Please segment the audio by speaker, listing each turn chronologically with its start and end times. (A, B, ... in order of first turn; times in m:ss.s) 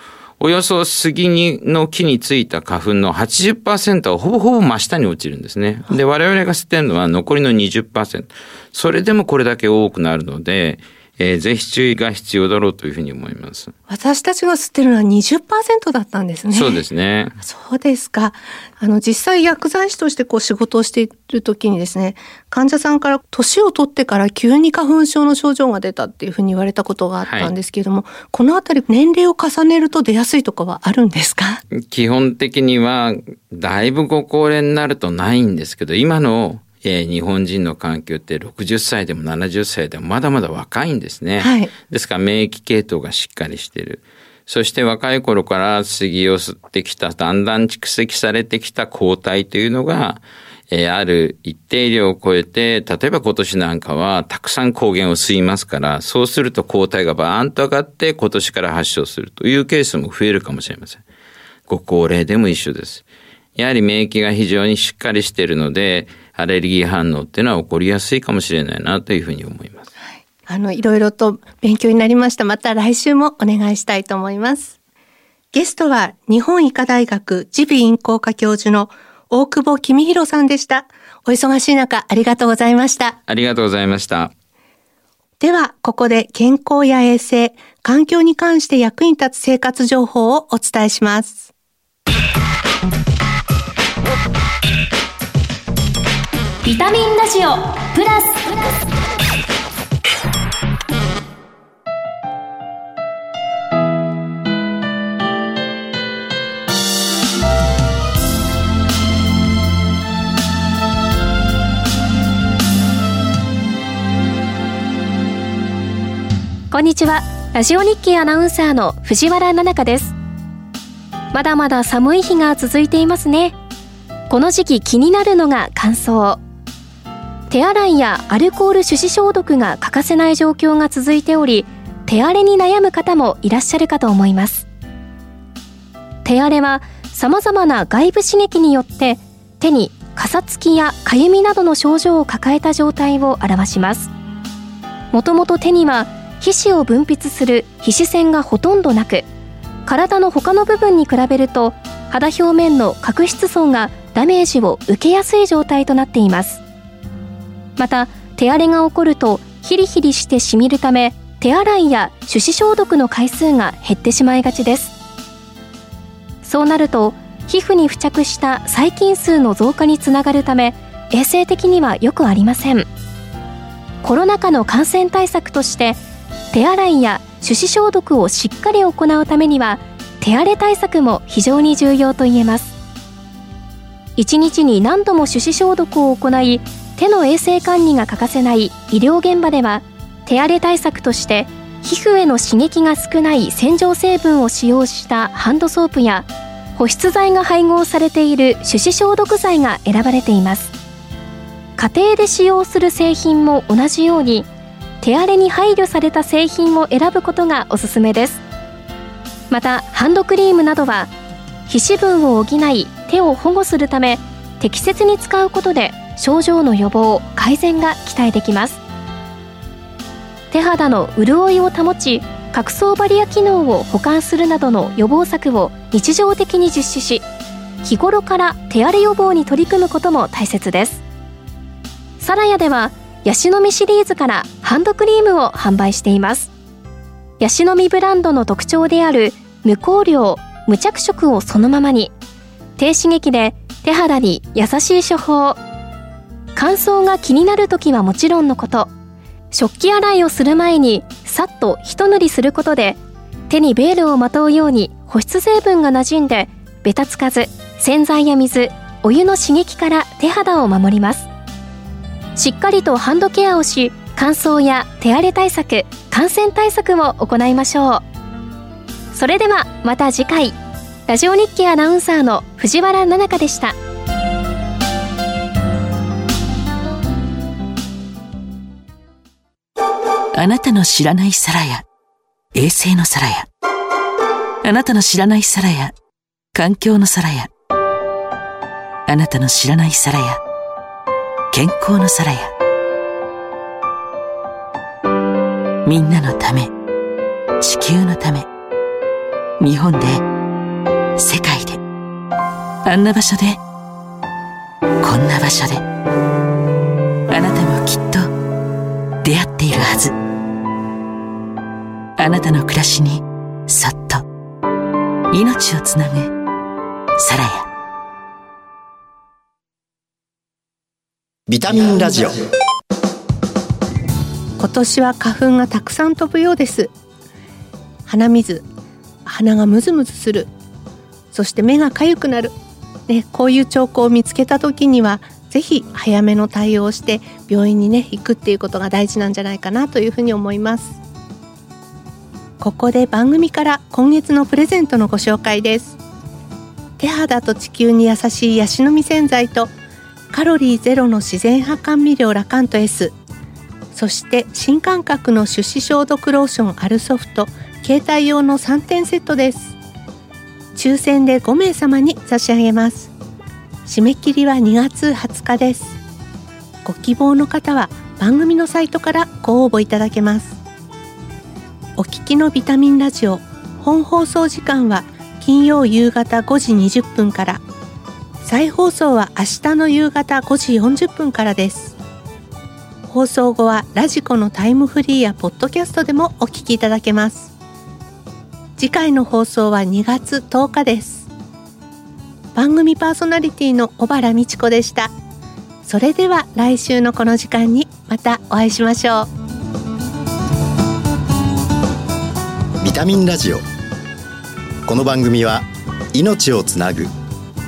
0:00.4-0:13.7 A
0:13.9-0:16.8 B
0:16.5-0:17.4 A
0:17.4-0:31.6 B
0:27.3-0:27.5 A
0:31.8-1:01.0 A
0:41.4-0:41.7 B
1:01.7-1:03.0 A
1:03.6-1:09.9 A
1:10.5-1:14.8 B
1:15.5-1:23.2 B
1:23.3-1:24.3 A
1:25.4-1:31.5 B
1:36.6-1:38.8 C
1:56.7-2:00.2 C
2:01.3-2:03.6 C
2:04.3-2:06.4 C
2:07.5-2:14.7 C
2:16.2-2:24.1 C
2:25.1-2:29.3 C
2:29.9-2:36.6 C
2:37.8-2:44.9 C
2:46.4-2:52.9 C
2:54.0-2:56.0 C
2:56.5-3:02.7 C
3:04.2-3:20.7 C
3:21.8-3:24.5 C
3:25.0-3:28.4 C
3:29.5-3:31.1 C
3:31.7-3:38.8 C
3:40.5-3:47.3 C
3:47.8-3:51.0 C
3:52.2-3:56.5 C
3:57.4-4:02.1 C
4:02.8-4:05.6 C
4:06.6-4:08.9 C
4:09.5-4:21.3 C
4:22.4-4:28.0 C
4:29.1-4:33.8 C
4:40.3-4:41.8 D
4:42.5-4:43.5 D
4:44.6-4:46.0 D
4:46.5-4:47.5 D
4:49.1-4:50.4 D
4:51.5-4:52.5 D
4:55.8-4:56.7 D
4:57.6-4:58.5 D
4:59.6-5:00.2 D
5:01.2-5:01.8 D
5:02.8-5:03.6 D
5:05.0-5:05.8 D
5:07.3-5:08.3 D
5:09.2-5:10.2 D
5:12.2-5:14.2 D
5:15.3-5:16.3 D
5:17.2-5:17.7 D
5:21.5-5:22.4 E
5:24.6-5:26.9 B
5:28.1-5:28.7 B
5:29.2-5:30.5 B
5:31.3-5:32.6 B
5:33.1-5:41.0 B
5:42.6-5:46.0 B
5:47.0-5:49.7 B
5:50.3-5:53.2 B
5:53.9-5:59.8 B
6:00.8-6:03.1 B
6:03.9-6:06.0 B
6:06.8-6:10.6 B
6:12.0-6:17.6 B
6:18.4-6:22.0 B
6:23.1-6:27.5 B
6:28.8-6:31.3 B
6:32.6-6:35.1 B
6:35.8-6:39.3 B
6:42.8-6:43.6 E
6:44.8-6:47.1 E